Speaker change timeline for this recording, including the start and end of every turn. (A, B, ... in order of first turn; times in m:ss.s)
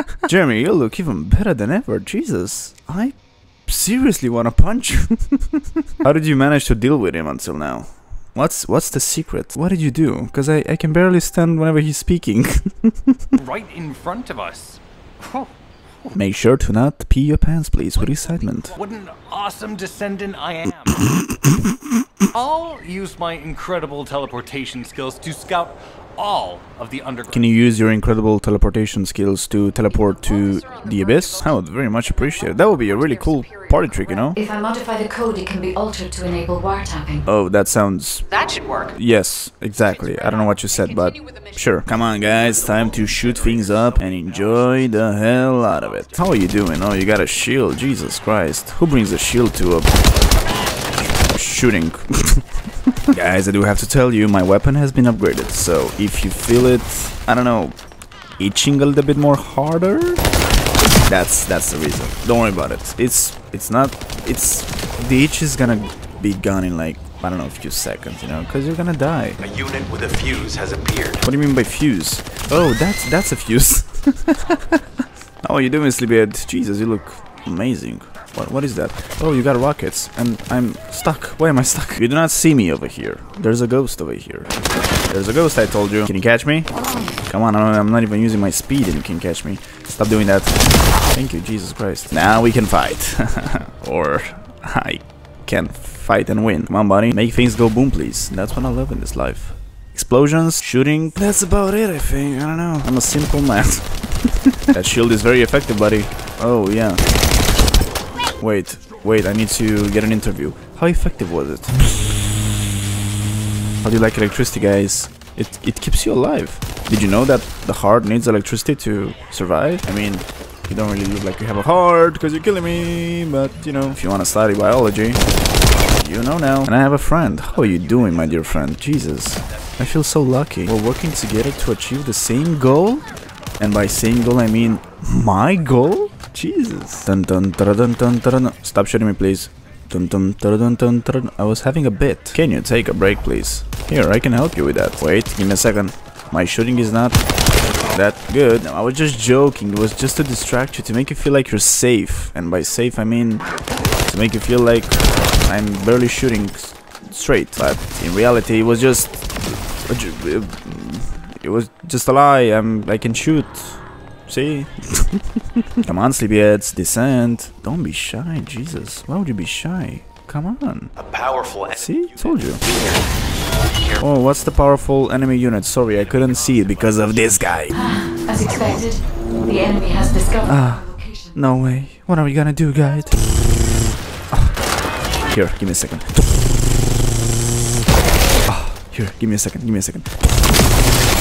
0:00.3-0:13.2 A
0:13.4-0:15.5 B
0:16.1-0:18.8 A
0:18.8-0:21.2 B
0:22.3-0:27.6 B
0:27.3-0:34.4 A
0:29.9-0:31.5 C
0:32.0-0:35.2 C
0:34.4-0:37.2 D
0:37.3-0:38.4 A
0:38.3-0:38.9 C
0:38.9-0:50.0 A
0:39.8-0:41.8 C
0:43.5-0:43.8 E
0:44.4-0:46.0 E
0:51.3-0:52.4 A
0:53.1-0:57.8 A
0:58.4-1:00.2 A
1:01.1-1:09.4 A
1:09.4-1:11.2 E
1:11.2-1:14.8 A
1:15.4-1:24.5 A
1:25.1-1:30.6 A
1:31.1-1:47.0 A
1:48.4-1:51.8 A
1:53.8-2:05.2 A
2:06.0-2:13.1 A
2:13.6-2:27.2 A
2:27.9-2:33.5 A
2:34.1-2:45.2 A
2:45.8-2:50.9 A
2:51.0-2:54.0 E
2:51.7-2:52.6 A
2:54.0-2:57.8 A
2:57.7-3:01.3 D
3:00.4-3:03.4 A
3:05.2-3:06.7 A
3:08.5-3:10.6 A